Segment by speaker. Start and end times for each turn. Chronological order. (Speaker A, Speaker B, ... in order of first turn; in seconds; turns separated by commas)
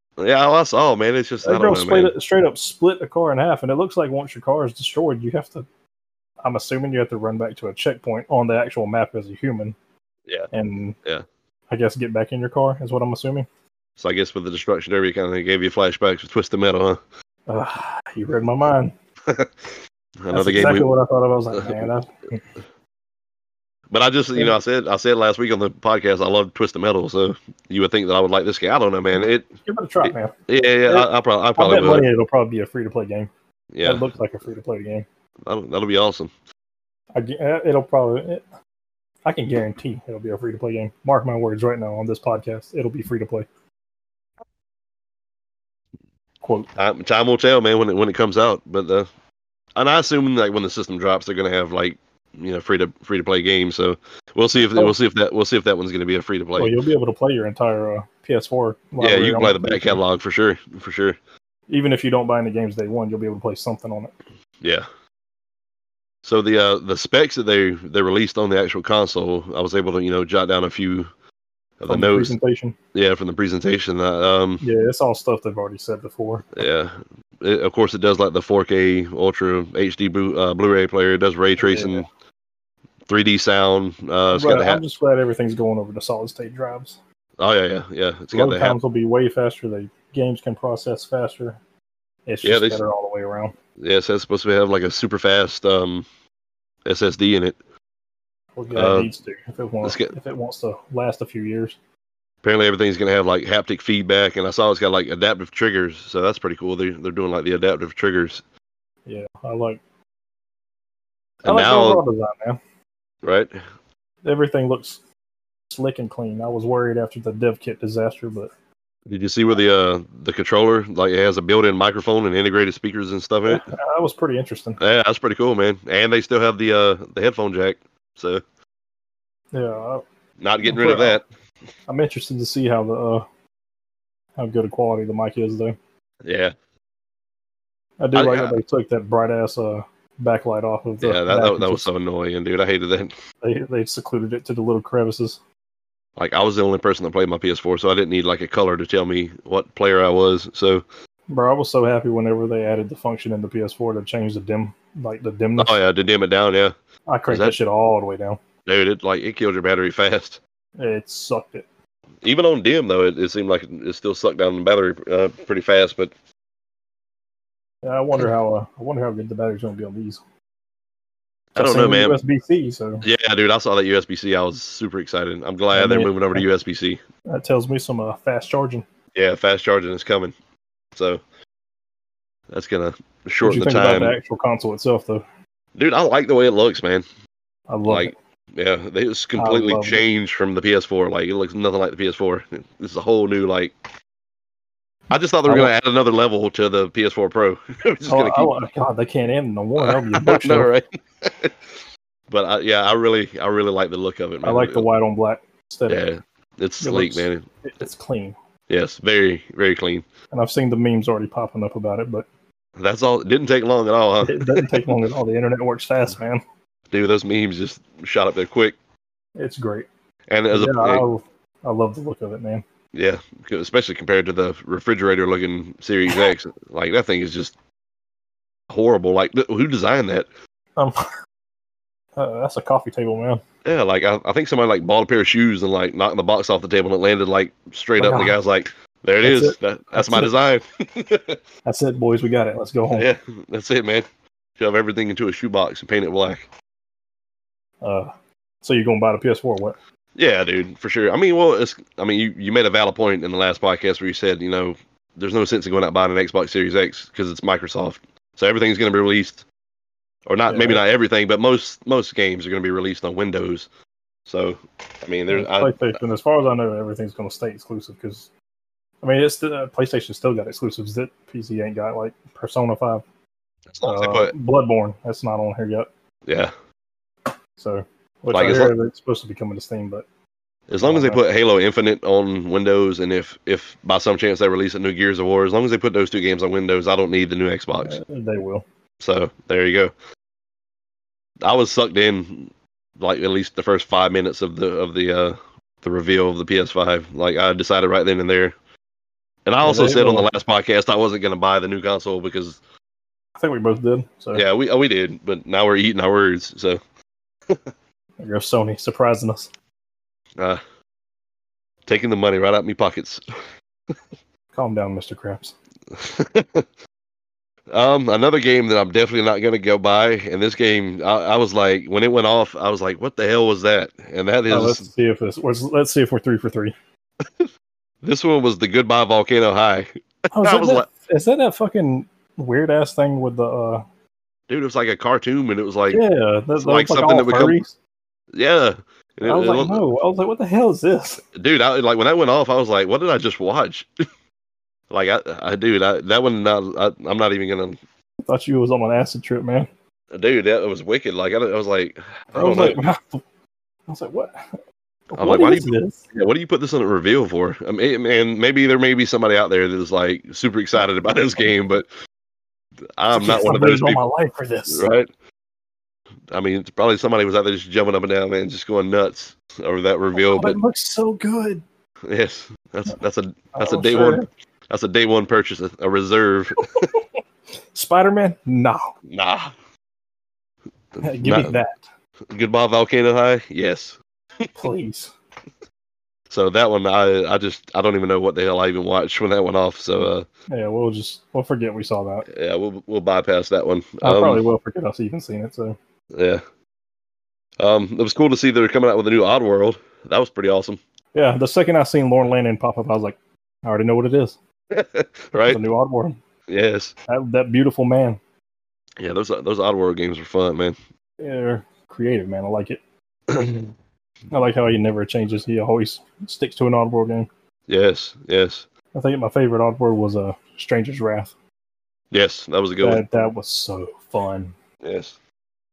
Speaker A: 0.2-2.1, Speaker B: 1.4-5.7, Speaker B: 6.4-9.8, Speaker B: 10.5-11.0, Speaker B: 11.7-13.5, Speaker A: 14.0-17.0, Speaker B: 17.5-18.9, Speaker A: 19.3-19.7, Speaker A: 20.2-20.9, Speaker B: 20.3-22.4, Speaker A: 21.5-21.9, Speaker A: 23.9-29.5, Speaker B: 29.6-30.3, Speaker A: 30.0-32.0, Speaker B: 30.9-33.3, Speaker A: 33.7-34.1, Speaker B: 33.8-35.0, Speaker A: 35.5-36.3, Speaker B: 37.1-38.4, Speaker B: 39.2-43.5, Speaker B: 46.4-46.7, Speaker A: 46.8-49.1, Speaker A: 49.8-56.7, Speaker B: 56.6-60.0, Speaker A: 59.0-61.2, Speaker B: 61.7-64.1, Speaker A: 64.6-64.8, Speaker A: 66.2-71.1, Speaker A: 71.8-72.3, Speaker B: 71.9-72.8, Speaker A: 72.9-74.6, Speaker B: 74.6-76.6, Speaker A: 76.5-82.0, Speaker B: 81.6-82.1, Speaker A: 83.1-84.8, Speaker B: 84.3-87.0, Speaker A: 87.4-88.7, Speaker B: 88.3-91.6, Speaker B: 92.3-93.5, Speaker A: 92.4-92.8, Speaker A: 93.8-96.0, Speaker A: 96.8-97.6, Speaker B: 98.6-101.8, Speaker A: 98.7-99.1, Speaker A: 99.8-100.1, Speaker A: 102.4-108.4, Speaker B: 109.0-109.8, Speaker A: 111.4-112.0, Speaker B: 111.4-112.6, Speaker A: 113.2-113.5, Speaker B: 114.2-115.0, Speaker B: 115.7-118.5, Speaker A: 119.1-123.7, Speaker B: 123.5-124.8, Speaker A: 124.8-128.4, Speaker B: 129.5-130.0, Speaker A: 130.4-131.2, Speaker B: 130.6-131.2, Speaker B: 131.9-133.2, Speaker B: 134.4-135.8, Speaker A: 136.2-136.5, Speaker B: 138.0-141.9, Speaker A: 138.1-138.5, Speaker A: 141.0-143.2, Speaker B: 143.4-145.4, Speaker A: 146.2-150.8, Speaker B: 151.3-155.8, Speaker A: 155.6-156.7, Speaker B: 157.1-158.4, Speaker A: 157.3-157.5, Speaker A: 158.7-160.4, Speaker B: 160.8-161.7, Speaker A: 162.2-166.1, Speaker B: 167.8-170.2, Speaker A: 171.5-172.2, Speaker B: 171.6-173.1, Speaker A: 173.0-177.0, Speaker B: 175.7-176.4, Speaker B: 177.3-178.8, Speaker A: 179.1-180.3, Speaker A: 180.9-181.2, Speaker A: 182.5-184.2, Speaker B: 183.4-185.2, Speaker A: 185.7-187.0, Speaker B: 187.7-188.1, Speaker A: 187.9-193.7, Speaker B: 189.4-190.0, Speaker A: 195.1-198.5, Speaker B: 195.4-195.7, Speaker B: 198.1-200.7, Speaker A: 199.8-204.8, Speaker B: 204.4-206.0, Speaker A: 205.9-207.4, Speaker B: 206.8-208.3, Speaker A: 208.7-210.0, Speaker B: 210.3-212.2, Speaker A: 212.8-214.8, Speaker B: 214.2-216.4, Speaker A: 216.9-218.8, Speaker B: 219.4-219.9, Speaker A: 220.3-221.0, Speaker B: 220.5-222.6, Speaker A: 222.9-227.5, Speaker A: 228.7-230.3, Speaker B: 230.8-231.0, Speaker B: 232.2-233.4, Speaker A: 233.6-241.4, Speaker B: 238.0-238.3, Speaker B: 239.2-240.3, Speaker B: 241.6-243.1, Speaker A: 242.9-246.5, Speaker B: 247.8-248.1, Speaker B: 248.6-249.8, Speaker A: 250.2-259.4, Speaker A: 260.3-263.7, Speaker B: 260.5-260.8, Speaker A: 264.2-265.8, Speaker B: 265.3-268.3, Speaker B: 269.0-273.0, Speaker A: 273.7-274.3, Speaker B: 273.8-275.9, Speaker A: 276.3-276.5, Speaker B: 277.6-280.1, Speaker A: 278.3-278.7, Speaker A: 280.7-288.0, Speaker B: 280.8-281.2, Speaker B: 287.8-288.6, Speaker A: 289.0-289.9, Speaker A: 291.4-298.5, Speaker A: 299.4-302.6, Speaker B: 299.6-300.3, Speaker B: 303.4-304.4, Speaker A: 304.3-306.8, Speaker B: 308.2-309.5, Speaker A: 311.9-313.2, Speaker B: 314.5-315.5, Speaker A: 315.9-316.6, Speaker A: 317.7-324.9, Speaker B: 324.5-326.7, Speaker A: 327.2-327.5, Speaker A: 328.0-330.9, Speaker B: 330.3-333.8, Speaker A: 334.5-336.0, Speaker B: 335.9-337.7, Speaker A: 336.6-337.6, Speaker A: 338.3-339.8, Speaker B: 339.2-341.2, Speaker A: 341.3-344.0, Speaker A: 344.9-347.8, Speaker B: 348.2-349.7, Speaker A: 350.1-352.8, Speaker B: 352.3-353.2, Speaker B: 353.9-354.6, Speaker B: 355.1-356.0, Speaker A: 355.2-361.9, Speaker A: 363.0-364.0, Speaker B: 363.1-364.9, Speaker A: 364.7-365.1, Speaker A: 366.3-370.6, Speaker B: 370.1-371.6, Speaker A: 372.1-376.9, Speaker B: 373.5-374.3, Speaker B: 377.7-378.9, Speaker A: 379.1-379.5, Speaker A: 381.0-381.6, Speaker B: 381.0-381.9, Speaker A: 382.3-384.0, Speaker B: 384.6-385.1, Speaker A: 386.3-390.2, Speaker B: 390.5-392.2, Speaker A: 392.3-394.4, Speaker B: 394.0-395.8, Speaker A: 396.1-396.4, Speaker A: 397.6-400.8, Speaker B: 401.1-404.4, Speaker A: 404.7-405.6, Speaker B: 405.5-406.2, Speaker A: 406.5-406.9, Speaker B: 407.1-408.2, Speaker A: 409.0-410.8, Speaker B: 411.2-412.8, Speaker A: 413.3-413.7, Speaker B: 414.3-417.3, Speaker A: 417.7-418.6, Speaker B: 418.9-421.3, Speaker A: 422.1-423.0, Speaker B: 422.8-424.5, Speaker A: 424.8-425.1